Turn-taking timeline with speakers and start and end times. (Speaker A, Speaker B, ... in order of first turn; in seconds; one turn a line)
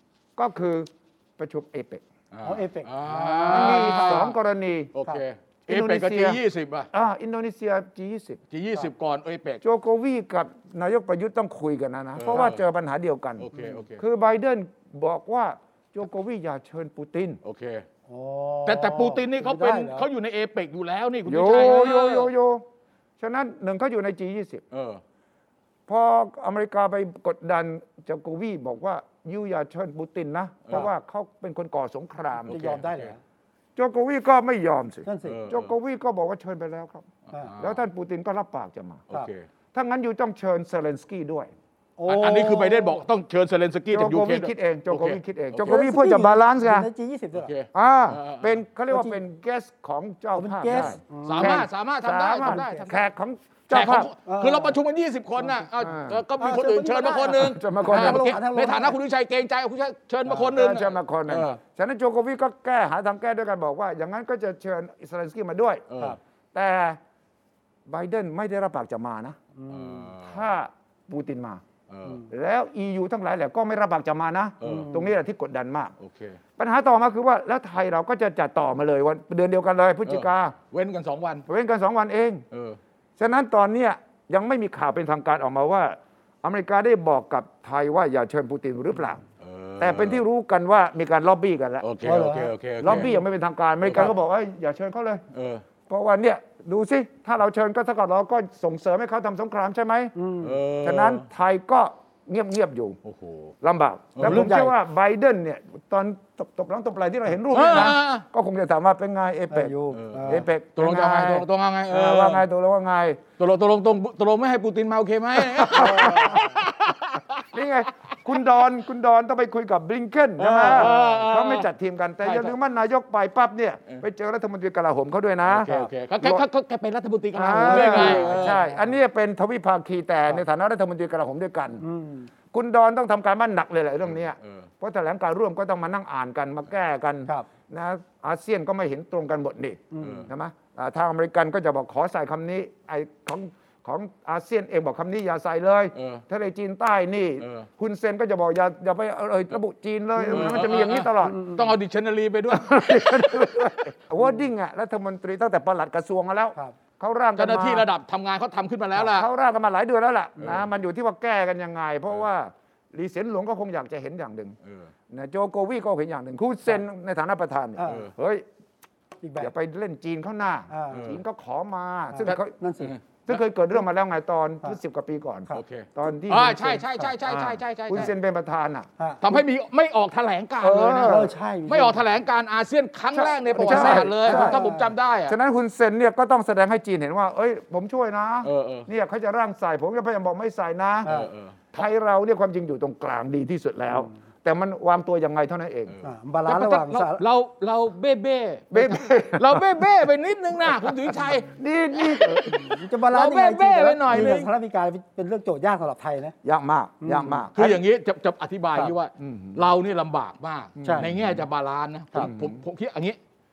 Speaker A: 0.4-2.0
Speaker B: 2.3-4.3
Speaker C: 2.4-4.2
Speaker A: 3.5-4.9
Speaker B: 4.9-6.9
Speaker A: 5.7-6.4
Speaker A: 6.9-8.4
Speaker B: 8.5-9.6
Speaker A: 9.6-17.4
Speaker B: 12.2-12.6
Speaker B: 13.4-14.0
Speaker C: 13.5-13.8
Speaker B: 17.4-17.8
Speaker C: 18.1-20.1
Speaker B: 18.6-22.3
Speaker A: 21.2-22.6
Speaker A: 23.2-24.6
Speaker B: 24.7-25.0
Speaker A: 25.9-32.6
Speaker B: 32.4-33.1
Speaker C: 32.5-33.2
Speaker A: 33.8-37.1
Speaker C: 35.0-35.4
Speaker B: 35.2-35.7
Speaker B: 37.3-37.8
Speaker A: 37.6-39.1
Speaker B: 39.1-39.4
Speaker A: 39.7-41.5
Speaker C: 42.0-43.0
Speaker B: 42.1-45.8
Speaker A: 43.9-46.9
Speaker C: 45.7-47.5
Speaker B: 47.3-48.5
Speaker A: 47.7-54.1
Speaker C: 48.9-49.2
Speaker C: 50.4-51.6
Speaker B: 50.7-53.0
Speaker C: 52.4-52.9
Speaker B: 53.7-61.6
Speaker C: 54.2-54.8
Speaker C: 55.4-55.7
Speaker A: 55.8-56.2
Speaker C: 56.4-59.0
Speaker A: 57.4-58.3
Speaker C: 60.2-60.5
Speaker A: 60.5-65.8
Speaker B: 65.9-66.2
Speaker A: 66.5-67.0
Speaker A: 67.9-69.4
Speaker C: 69.5-70.1
Speaker B: 69.7-70.4
Speaker A: 70.2-71.6
Speaker B: 71.9-72.2
Speaker A: 72.3-75.9
Speaker B: 74.6-74.9
Speaker C: 74.6-75.1
Speaker B: 76.0-76.4
Speaker A: 76.6-80.5
Speaker B: 80.0-81.5
Speaker A: 81.5-82.4
Speaker B: 82.5-82.8
Speaker A: 83.2-89.2
Speaker B: 89.4-90.2
Speaker A: 89.8-91.9
Speaker B: 91.8-93.1
Speaker C: 92.0-93.1
Speaker A: 92.8-95.2
Speaker B: 93.8-94.1
Speaker B: 95.3-95.6
Speaker A: 95.9-100.1
Speaker C: 100.1-100.6
Speaker B: 100.4-101.2
Speaker A: 100.8-103.0
Speaker B: 103.0-103.5
Speaker A: 103.6-109.7
Speaker B: 104.1-104.5
Speaker C: 104.2-104.7
Speaker B: 107.5-108.2
Speaker C: 109.5-110.5
Speaker B: 109.9-112.5
Speaker A: 110.2-113.2
Speaker B: 113.4-117.4
Speaker A: 115.4-116.5
Speaker C: 115.7-116.6
Speaker A: 117.5-126.4
Speaker C: 120.4-121.2
Speaker B: 120.6-121.7
Speaker B: 122.2-122.5
Speaker B: 125.5-128.6
Speaker C: 125.7-125.9
Speaker A: 127.3-131.8
Speaker C: 127.5-128.8
Speaker C: 131.8-132.3
Speaker A: 132.5-151.5
Speaker B: 134.4-134.7
Speaker C: 139.9-140.3
Speaker B: 140.0-140.2
Speaker B: 145.9-146.2
Speaker B: 147.4-147.7
Speaker B: 150.3-153.9
Speaker A: 152.5-157.9
Speaker B: 157.4-159.3
Speaker A: 159.0-164.6
Speaker B: 164.6-164.9
Speaker A: 165.1-168.4
Speaker C: 167.8-168.1
Speaker B: 167.8-168.1
Speaker C: 169.2-169.5
Speaker A: 169.4-172.5
Speaker C: 170.7-171.1
Speaker B: 170.9-171.2
Speaker C: 172.1-172.9
Speaker B: 172.2-173.4
Speaker A: 173.2-178.9
Speaker B: 175.5-178.1
Speaker B: 179.2-185.3
Speaker A: 180.6-181.3
Speaker C: 181.0-182.0
Speaker A: 183.1-184.6
Speaker C: 183.6-184.9
Speaker A: 185.3-191.1
Speaker B: 188.4-188.9
Speaker B: 191.0-191.8
Speaker A: 191.7-195.9
Speaker B: 195.9-201.5
Speaker C: 196.0-197.2
Speaker A: 198.7-199.7
Speaker A: 201.5-202.6
Speaker B: 202.0-204.5
Speaker C: 202.5-206.3
Speaker A: 206.4-207.8
Speaker C: 207.0-207.5
Speaker B: 207.5-213.2
Speaker A: 209.2-209.6
Speaker A: 210.8-211.4
Speaker C: 210.8-211.1
Speaker A: 212.2-212.6